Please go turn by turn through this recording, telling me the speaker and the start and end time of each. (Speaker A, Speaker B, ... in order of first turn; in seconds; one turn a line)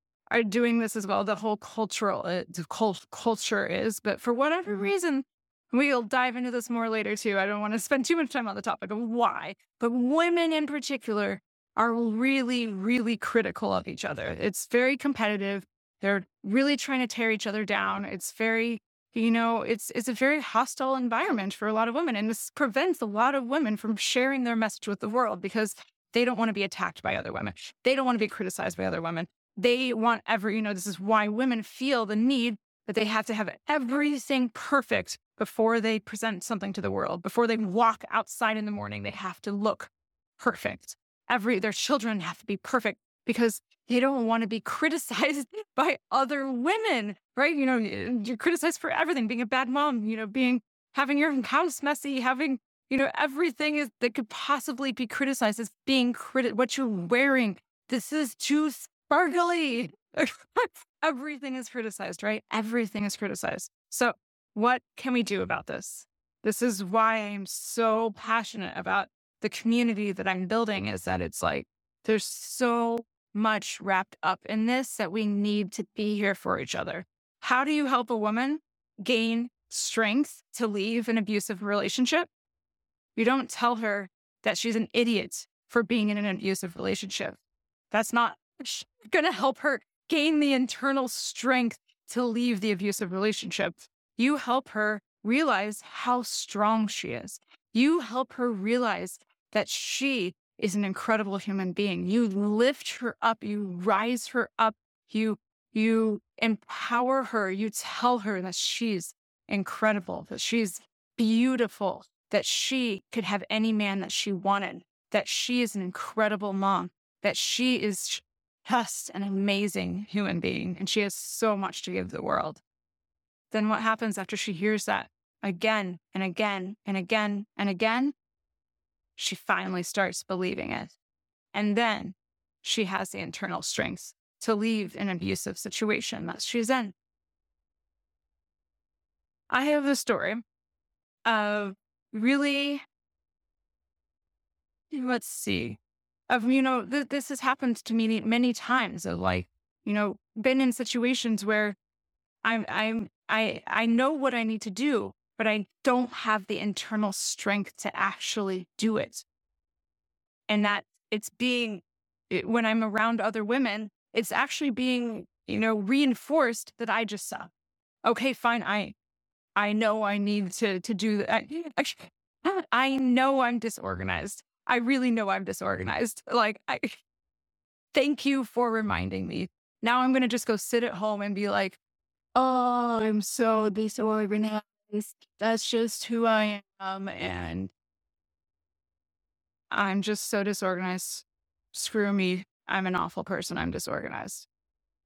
Speaker A: 0.3-82.3
Speaker A: 83.2-87.4
Speaker A: 87.9-122.6
Speaker A: 123.5-128.2
Speaker A: 129.2-131.0
Speaker A: 131.5-136.9
Speaker A: 139.5-140.4
Speaker A: 141.2-142.8
Speaker A: 144.9-151.8
Speaker A: 152.4-159.2
Speaker A: 160.5-167.5
Speaker A: 168.0-168.9
Speaker A: 169.6-177.0
Speaker A: 177.9-181.8
Speaker A: 182.3-187.7
Speaker A: 189.7-194.5